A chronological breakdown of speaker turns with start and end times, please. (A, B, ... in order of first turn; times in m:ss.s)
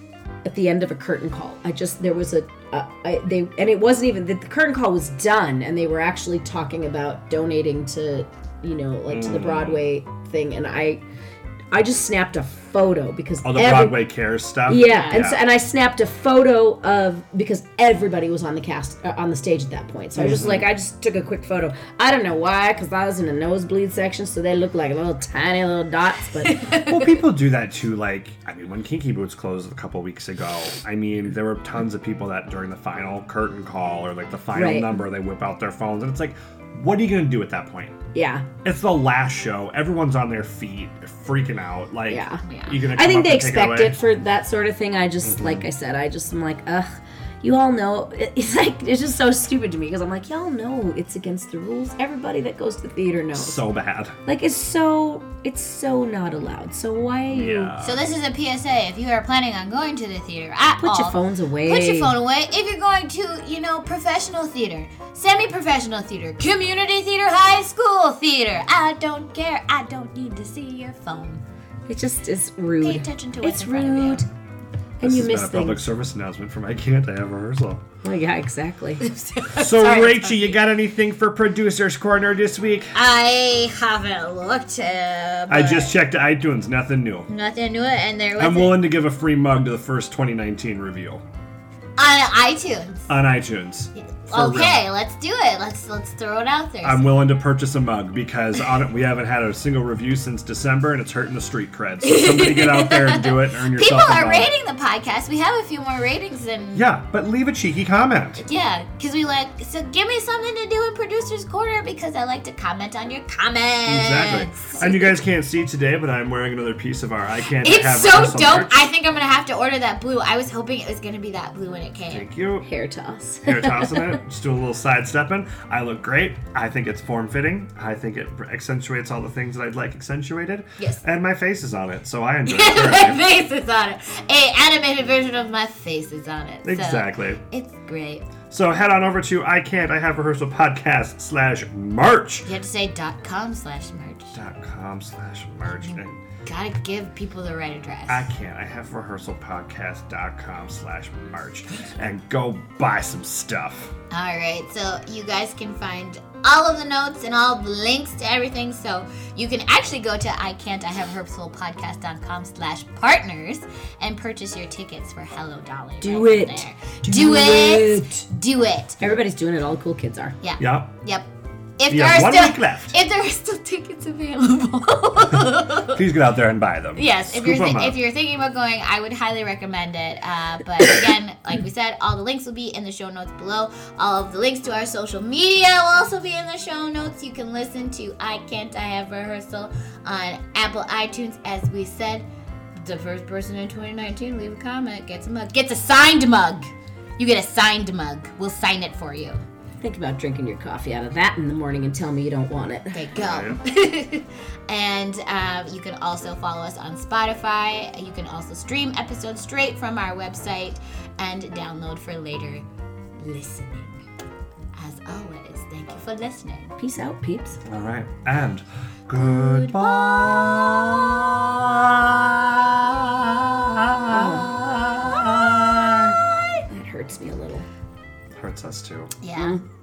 0:00.4-0:11.0 A
0:09.1-0:09.8 B
0:11.7-0:14.0 A
0:13.4-0:15.4 B
0:14.7-0:26.6 A
0:14.7-0:15.2 C
0:20.2-0:20.7 B
0:26.4-0:27.2 C
0:26.7-0:38.0 B
0:34.5-0:35.0 A
0:38.1-0:38.5 A
0:38.6-0:44.0 B
0:42.1-0:53.6 A
0:42.4-0:42.8 C
0:45.2-0:45.6 B
0:53.3-0:54.2 B
0:54.3-0:57.7 A
0:57.3-0:58.0 B
0:57.8-1:11.4 C
1:00.8-1:02.1 A
1:11.9-1:14.3 A
1:12.8-1:14.2 C
1:15.0-1:15.8 A
1:15.0-1:17.8 B
1:18.0-1:19.0 A
1:19.0-1:20.6 C
1:19.5-1:22.9 B
1:22.9-1:25.9 C
1:25.5-1:27.3 B
1:27.3-1:28.9 C
1:28.4-1:31.2 B
1:32.0-1:33.1 C
1:33.1-1:34.9 B
1:34.0-1:37.1 C
1:36.8-1:44.5 B
1:42.0-1:46.8 C
1:46.8-1:48.4 B
1:48.4-1:55.1 C
1:53.9-1:58.8 B
1:57.6-2:02.3 C
2:02.1-2:02.7 B
2:02.6-2:04.2 A
2:03.4-2:13.2 B
2:12.5-2:18.3 C
2:16.6-2:17.4 B
2:18.5-2:22.5 B
2:22.4-2:24.4 C
2:24.4-2:26.2 B
2:25.6-2:28.3 C
2:28.1-2:33.9 B
2:34.1-2:49.0 C
2:46.0-2:48.2 A
2:49.0-2:50.4 A
2:50.4-2:56.0 C
2:50.6-2:50.9 B
2:51.9-2:52.9 B
2:55.8-2:58.0 B
2:57.0-3:12.3 C
3:12.8-3:19.4 C
3:19.8-3:23.3 A
3:22.9-3:32.6 C
3:23.2-3:23.6 B
3:33.2-3:34.0 C
3:34.8-3:36.8 C
3:36.8-3:37.6 A
3:37.7-3:46.2 B
3:39.2-3:41.0 C
3:44.1-3:44.5 A
3:44.1-3:46.6 C
3:46.7-3:47.7 A
3:48.4-3:49.2 B
3:49.2-3:49.6 C
3:49.4-3:49.6 A